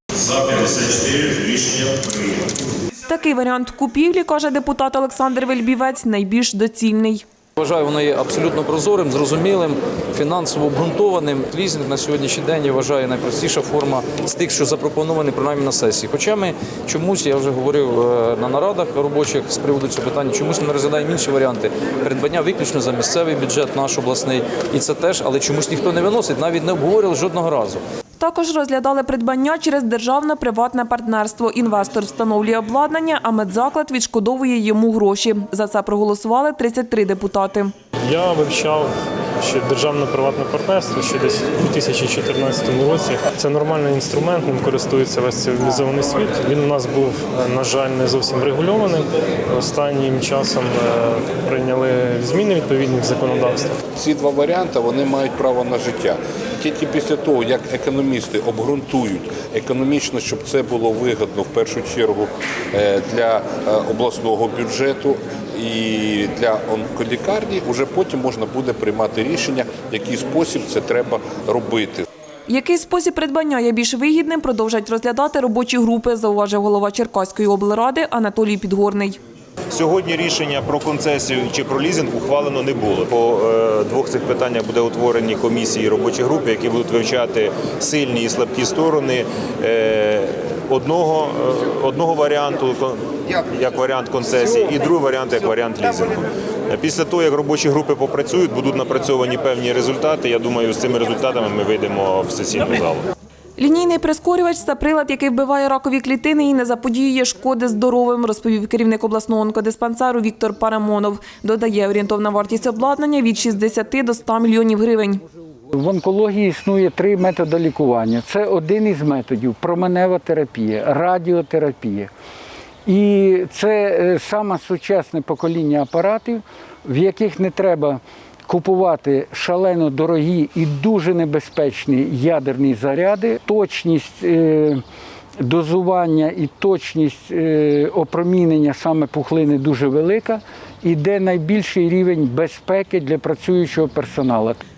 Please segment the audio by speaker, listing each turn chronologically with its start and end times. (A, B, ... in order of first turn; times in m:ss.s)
0:00.1-0:02.6 A
0:03.0-0:07.2 B
0:07.6-0:27.8 C
0:28.2-0:37.7 B
0:38.0-0:53.8 D
0:54.0-1:12.0 E
1:12.5-1:19.2 B
1:19.7-1:43.1 A
1:43.6-1:55.2 B
1:55.7-2:02.1 F
2:02.9-2:14.8 F
2:15.4-2:24.6 F